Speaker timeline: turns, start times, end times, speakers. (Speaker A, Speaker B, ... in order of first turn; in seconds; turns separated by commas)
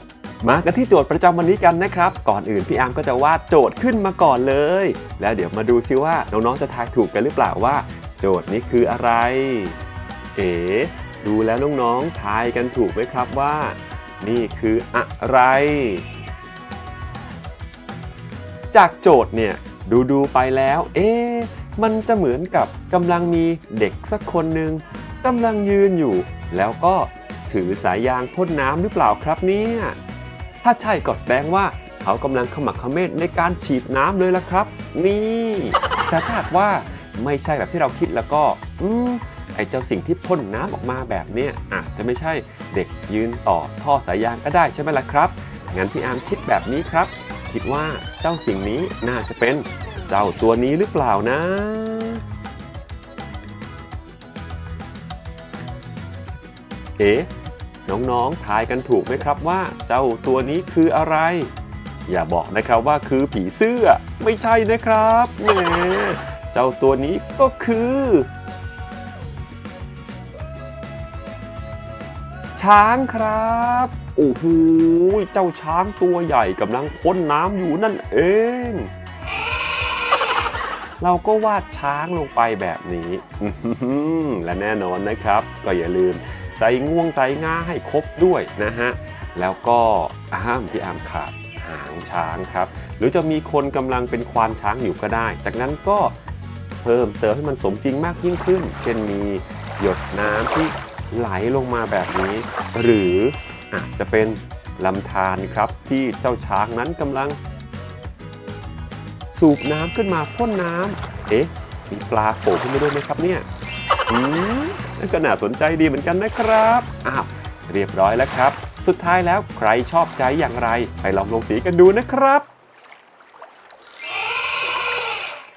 Speaker A: 0.4-9.8, Speaker A: 10.3-16.0, Speaker A: 18.7-30.0, Speaker A: 30.6-52.2, Speaker A: 57.0-57.3, Speaker A: 57.9-61.5, Speaker A: 62.0-68.3, Speaker A: 72.5-78.9, Speaker A: 81.0-96.2, Speaker A: 96.8-107.4, Speaker A: 109.3-113.5, Speaker A: 114.1-122.5